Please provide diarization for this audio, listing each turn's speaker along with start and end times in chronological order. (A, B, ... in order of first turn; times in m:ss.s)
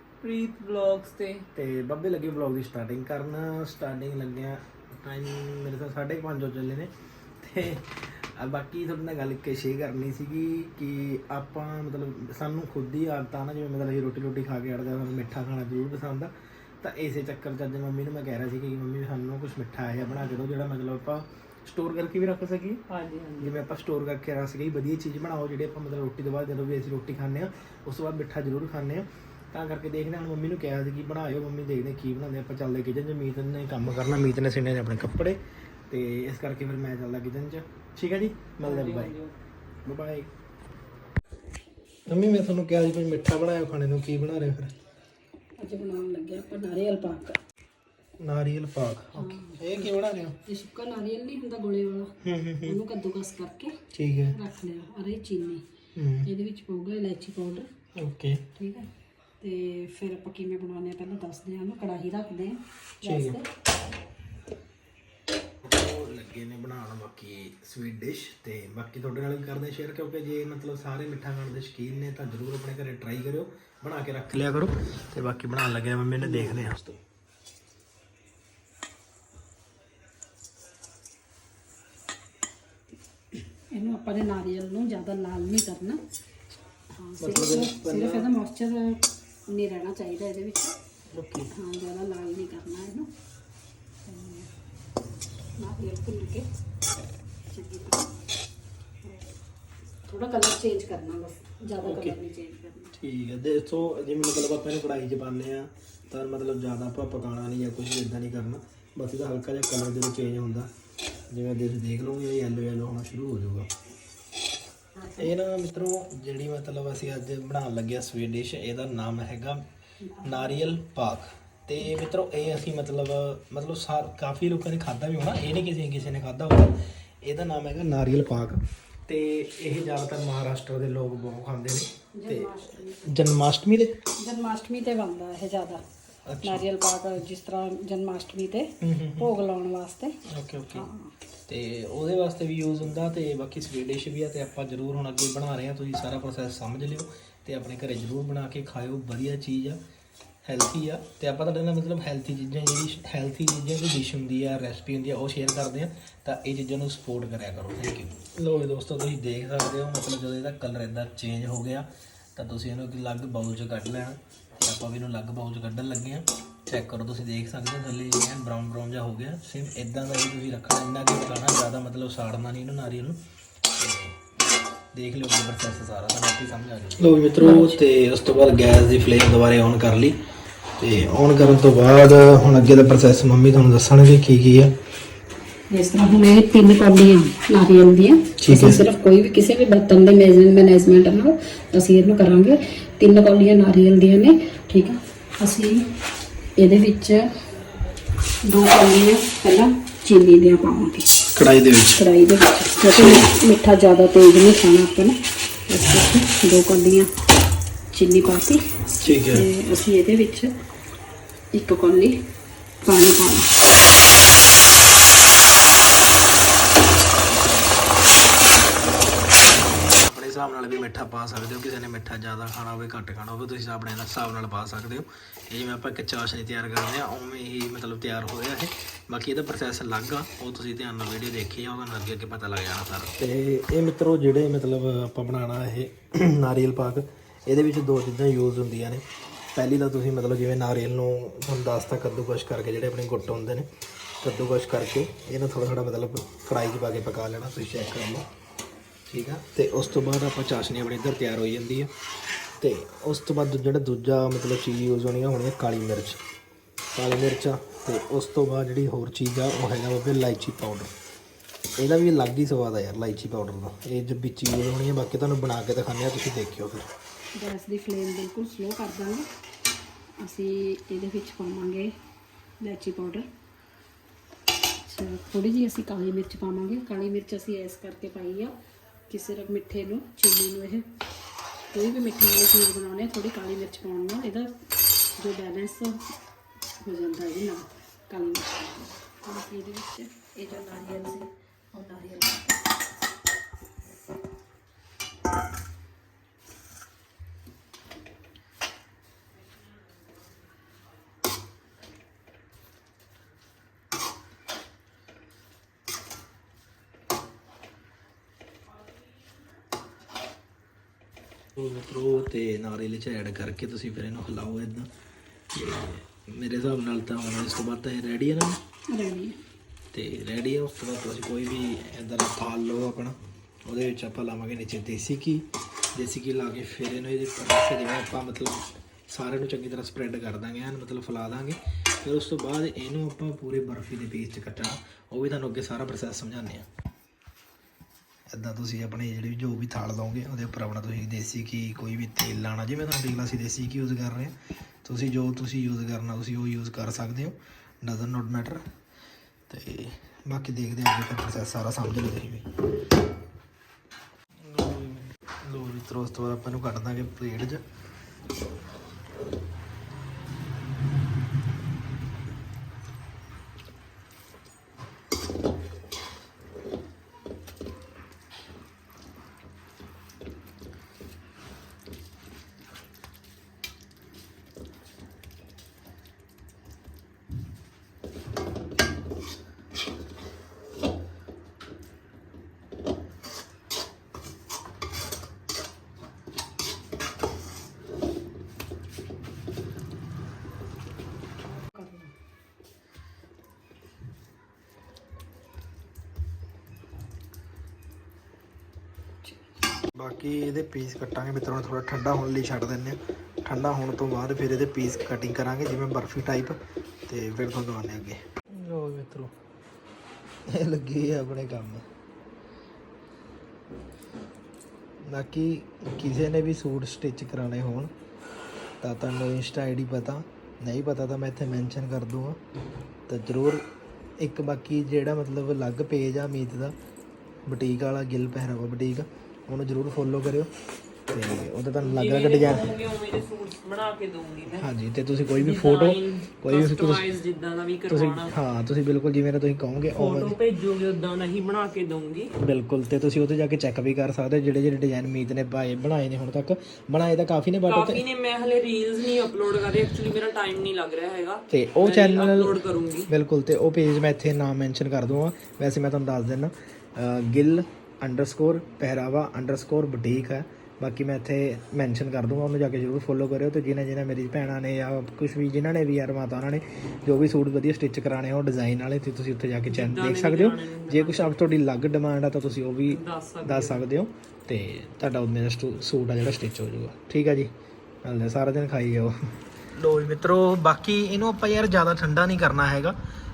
0:00.2-0:01.5 A
0:01.6-0:22.8 B
0:22.9-0:23.5 A
0:23.4-0:39.1 B
0:38.6-0:39.4 A
0:39.8-0:40.3 B
0:42.1-0:44.7 B
0:45.6-0:47.4 C
0:48.2-0:50.4 B
0:49.2-0:50.0 C
0:50.5-0:53.8 C
0:52.2-0:52.8 B
0:53.9-0:54.4 B
0:54.3-0:55.6 C
0:56.0-0:56.3 B
0:56.2-0:57.7 C
0:58.0-0:58.5 B
0:58.6-0:58.9 C
0:59.4-1:03.5 C
1:03.0-1:03.4 B
1:05.6-1:17.0 B
1:16.2-1:16.6 C
1:23.6-1:26.0 C
1:27.0-1:30.7 C
1:27.2-1:28.3 B
1:31.1-1:31.5 B
1:31.5-1:33.1 C
1:34.0-1:34.5 C
1:35.6-1:36.5 C
1:37.5-1:38.1 C
1:39.0-1:39.3 C
1:40.0-1:43.0 C
1:41.8-1:42.2 B
1:43.0-1:50.7 B
1:51.3-1:53.7 B
1:55.2-1:59.6 B
2:00.0-2:00.5 C
2:00.2-2:12.5 B
2:12.2-2:13.1 C
2:13.0-2:13.9 B
2:14.2-2:15.8 C
2:16.3-2:16.6 B
2:16.4-2:20.2 C
2:18.8-2:19.3 B
2:20.3-2:20.9 B
2:20.7-2:21.1 C
2:21.5-2:29.8 B
2:30.4-2:53.2 B
2:53.8-2:54.2 B
2:54.9-3:00.2 B
2:57.4-2:57.8 C
3:00.8-3:04.7 B
3:05.7-3:15.8 C
3:08.4-3:08.9 B
3:16.6-3:17.2 C
3:18.4-3:21.1 C
3:21.4-3:22.0 B
3:22.0-3:25.2 C
3:23.0-3:23.3 B
3:25.7-3:27.1 C
3:27.9-3:30.5 C
3:29.0-3:29.5 B
3:31.5-3:32.2 C
3:32.8-3:33.5 C
3:37.2-3:38.4 B
3:39.2-3:59.0 B
3:59.6-4:03.7 B
4:04.2-4:08.3 B
4:09.1-4:11.9 B
4:12.6-4:16.2 B
4:17.0-4:20.9 B
4:21.8-4:26.9 B
4:27.4-4:29.2 C
4:30.2-4:31.9 C
4:32.6-4:33.3 C
4:34.9-4:38.5 C
4:39.1-4:40.9 C
4:41.7-4:44.5 C
4:45.2-4:46.0 C
4:46.8-4:52.6 C
5:11.6-5:14.9 B
5:15.5-5:18.6 B
5:18.9-5:19.4 C
5:19.9-5:23.2 B
5:23.7-5:36.7 B
5:38.3-5:48.6 B
5:49.5-5:52.5 B
5:54.4-5:57.6 B
6:31.7-6:32.1 C
6:39.9-6:49.3 B
6:50.5-6:51.8 B
6:55.0-6:57.9 B
6:58.8-7:02.4 B
7:03.1-7:03.6 B
7:04.2-7:06.8 B
7:07.5-7:10.5 B
7:11.1-7:12.8 B
7:11.8-7:14.7 A
7:14.5-7:17.1 B
7:15.3-7:18.4 A
7:17.9-7:20.4 B
7:20.0-7:22.3 A
7:22.4-7:28.0 B
7:27.7-7:33.1 A
7:31.5-7:57.5 B
7:49.7-7:51.4 A
7:52.9-7:53.8 A
7:58.0-7:59.1 B
7:59.7-8:03.0 B